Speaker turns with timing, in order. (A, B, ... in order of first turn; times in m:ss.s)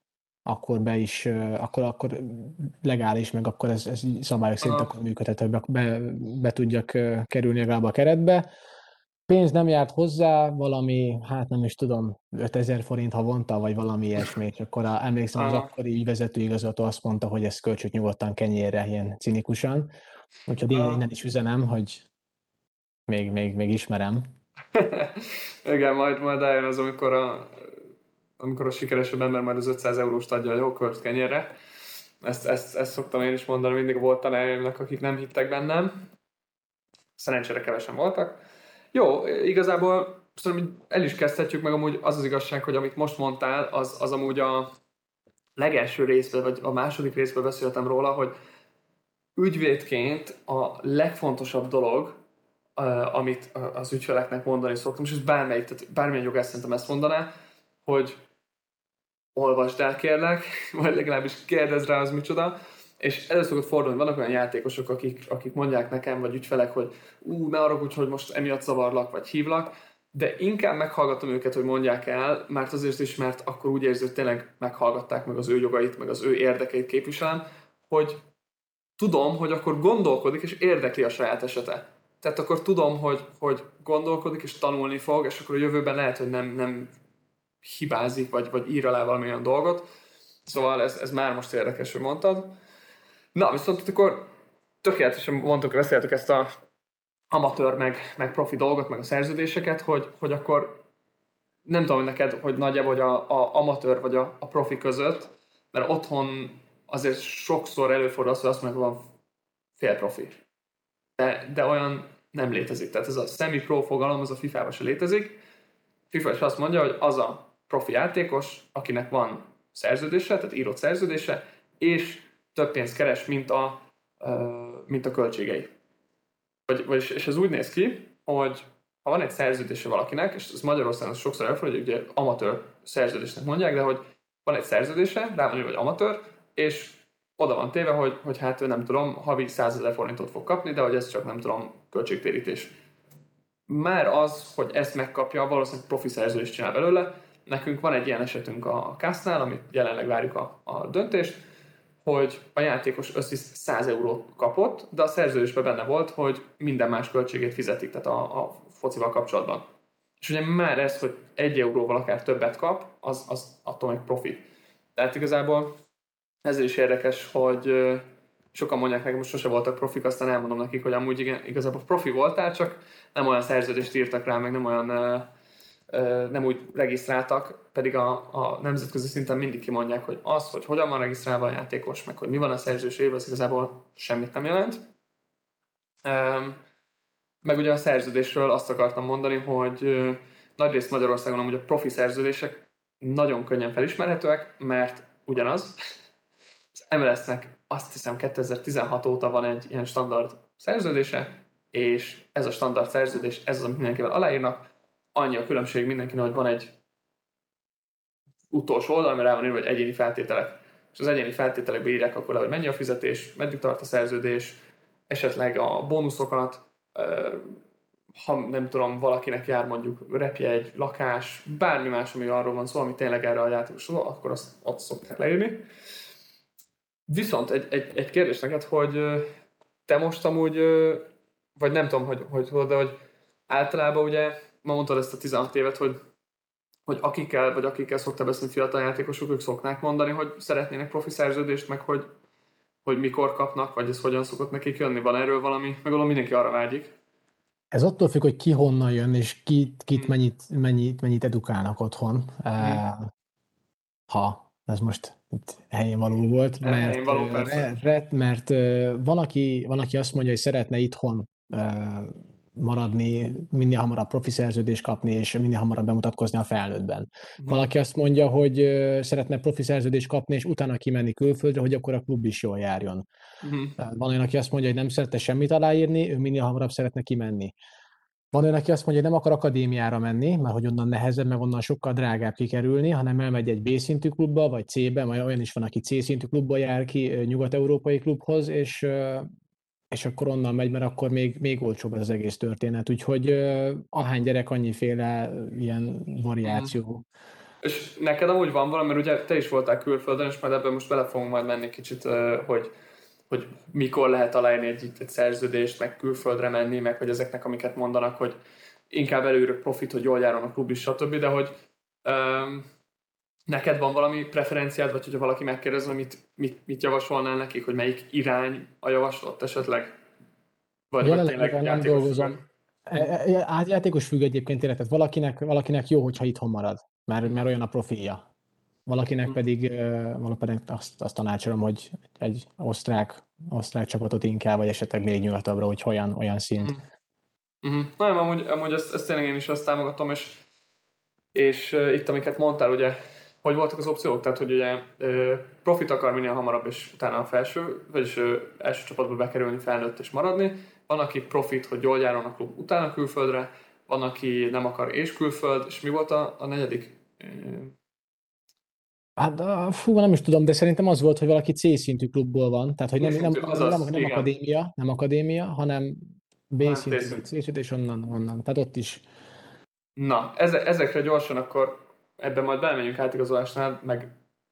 0:00.5-0:08.5 A
0:04.6-0:04.9 B
0:09.3-0:19.9 A
0:15.4-0:15.7 B
0:20.5-0:22.0 A
0:20.7-0:21.0 B
0:23.1-0:24.3 A
0:24.7-0:27.8 B
0:28.4-0:31.5 B
0:32.2-0:36.1 B
0:37.2-0:38.4 B
0:38.9-0:44.7 B
0:45.6-0:48.3 B
0:49.4-0:52.2 B
0:52.8-0:57.3 B
0:57.8-0:58.2 B
0:59.4-1:18.2 B
1:19.0-1:26.9 B
1:27.6-1:29.8 B
1:30.4-1:32.5 B
1:33.4-1:34.3 B
1:34.8-1:36.5 B
1:37.3-1:40.8 B
1:41.6-1:49.1 B
1:49.8-1:50.4 B
1:51.2-1:55.4 B
1:56.1-2:05.7 B
2:06.7-2:22.7 B
2:23.7-2:31.4 B
2:32.0-2:39.7 B
2:40.2-2:44.4 B
2:45.0-2:45.8 B
2:46.4-2:55.3 B
2:55.9-3:04.8 B
3:06.0-3:06.6 B
3:07.4-3:15.8 B
3:16.8-3:24.6 B
3:25.2-3:26.7 B
3:28.5-3:34.6 B
3:35.1-3:37.6 B
3:38.2-3:45.6 B
3:47.1-3:49.3 B
3:49.9-3:53.0 B
3:53.5-3:56.0 B
3:56.9-4:02.1 B
4:02.8-4:06.9 B
4:07.7-4:13.1 A
4:14.1-4:33.0 A
4:16.6-4:17.7 B
4:27.4-4:27.7 B
4:33.4-4:33.8 B
4:33.8-4:37.5 A
4:38.3-4:49.3 A
4:49.9-4:57.0 A
4:56.4-4:56.7 B
4:57.6-5:02.7 B
5:03.3-5:08.4 B
5:08.9-5:11.5 B
5:12.0-5:12.7 B
5:13.5-5:19.9 B
5:20.9-5:22.4 B
5:21.0-5:28.2 A
5:28.9-5:36.8 A
5:37.6-5:40.4 B
5:41.4-5:57.8 B
5:59.2-6:09.0 A
6:03.0-6:04.3 B
6:06.6-6:07.2 B
6:10.0-6:14.2 B